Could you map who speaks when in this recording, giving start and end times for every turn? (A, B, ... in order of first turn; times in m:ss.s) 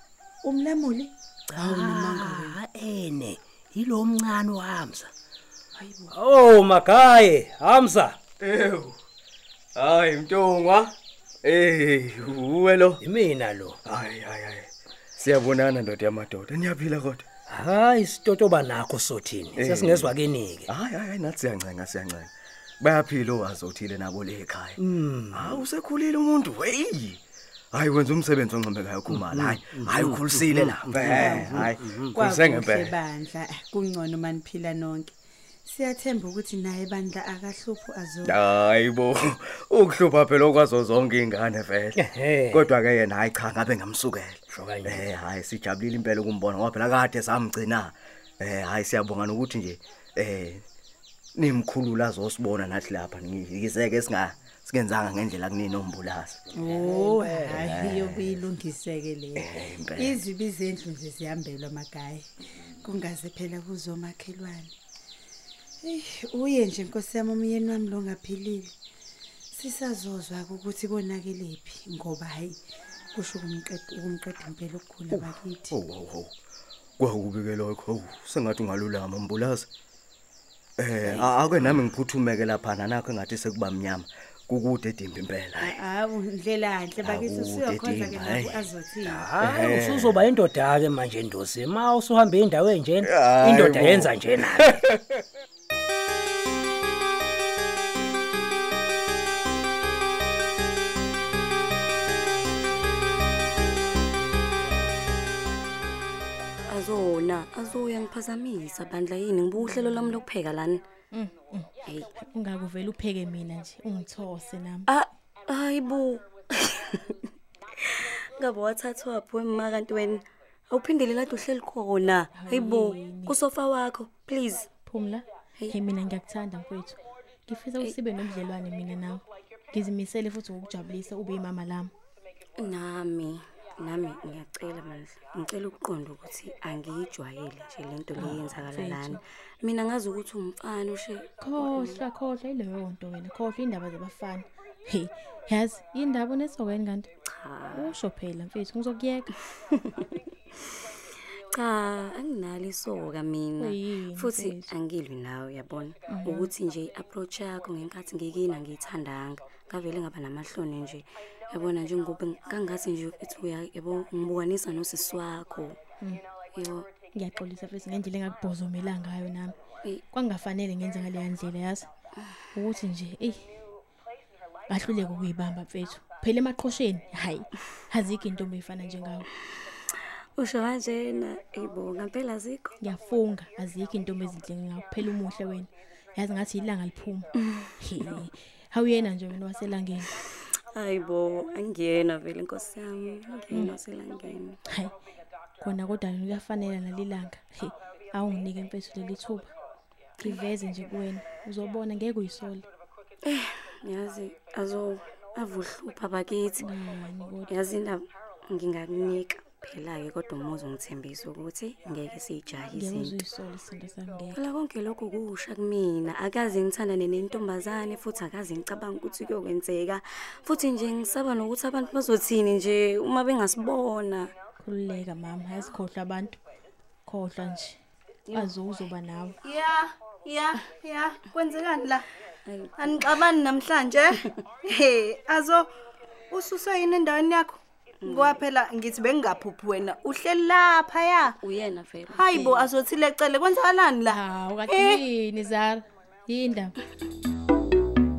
0:00.4-0:02.6 A
0:01.6-0:05.1 B
0:05.7-0:06.1 A
0:06.1-0:08.2 B
0:08.4-0:09.0 C
0:09.7-0:13.0 C
0:13.0-0:13.8 B
0:13.8-0:17.2 C
0:17.5-0:20.6 B
0:19.5-0:20.1 C
0:20.7-0:24.8 C
0:24.8-0:25.5 B
0:25.3-0:27.2 C
0:27.7-0:32.9 C
0:29.1-0:32.1 B
0:30.9-0:35.1 A
0:35.6-0:38.3 A
0:38.2-0:42.0 C
0:42.5-0:50.6 C
0:44.5-0:44.8 B
0:51.4-0:56.4 C
0:56.5-1:04.7 A
0:56.8-0:57.2 B
0:57.4-0:58.4 C
0:59.4-1:00.2 C
1:05.8-1:08.7 A
1:09.5-1:12.6 A
1:13.1-1:15.8 A
1:15.1-1:16.3 C
1:17.0-1:19.7 C
1:20.8-1:25.8 C
1:25.6-1:29.4 A
1:27.0-1:28.6 C
1:29.1-1:34.6 B
1:29.4-1:30.2 C
1:33.0-1:35.2 C
1:46.7-1:50.8 D
1:49.6-1:50.2 E
1:51.1-1:54.9 E
1:54.9-1:57.2 D
1:58.4-2:04.7 D
2:02.3-2:03.3 E
2:04.8-2:11.9 E
2:12.6-2:22.0 D
2:18.2-2:19.2 E
2:21.4-2:27.1 E
2:27.3-2:27.9 D
2:27.7-2:29.3 E
2:29.7-2:30.1 D
2:31.5-2:45.8 D
2:33.6-2:34.7 E
2:36.1-2:36.5 E
2:46.5-2:46.9 D
2:47.1-2:49.5 E
2:50.1-2:51.8 E
2:52.5-2:53.4 E
2:54.7-2:59.3 E
3:00.4-3:02.8 D
3:02.8-3:07.3 E
3:07.4-3:07.7 D
3:07.8-3:10.1 E
3:10.7-3:14.6 D
3:14.6-3:14.9 E
3:15.6-3:19.5 E
3:20.2-3:22.6 E
3:23.2-3:26.6 D
3:26.6-3:27.5 E
3:27.5-3:33.2 D
3:32.7-3:34.4 E
3:34.3-3:44.3 D
3:44.6-3:46.4 E
3:47.0-3:47.8 E
3:48.3-3:49.4 E
3:49.4-3:52.0 F
3:52.4-3:53.2 D
3:52.8-3:55.7 F
3:56.3-4:01.4 F
3:58.0-3:58.4 D
4:01.2-4:02.7 D
4:02.1-4:05.0 F
4:04.1-4:06.7 E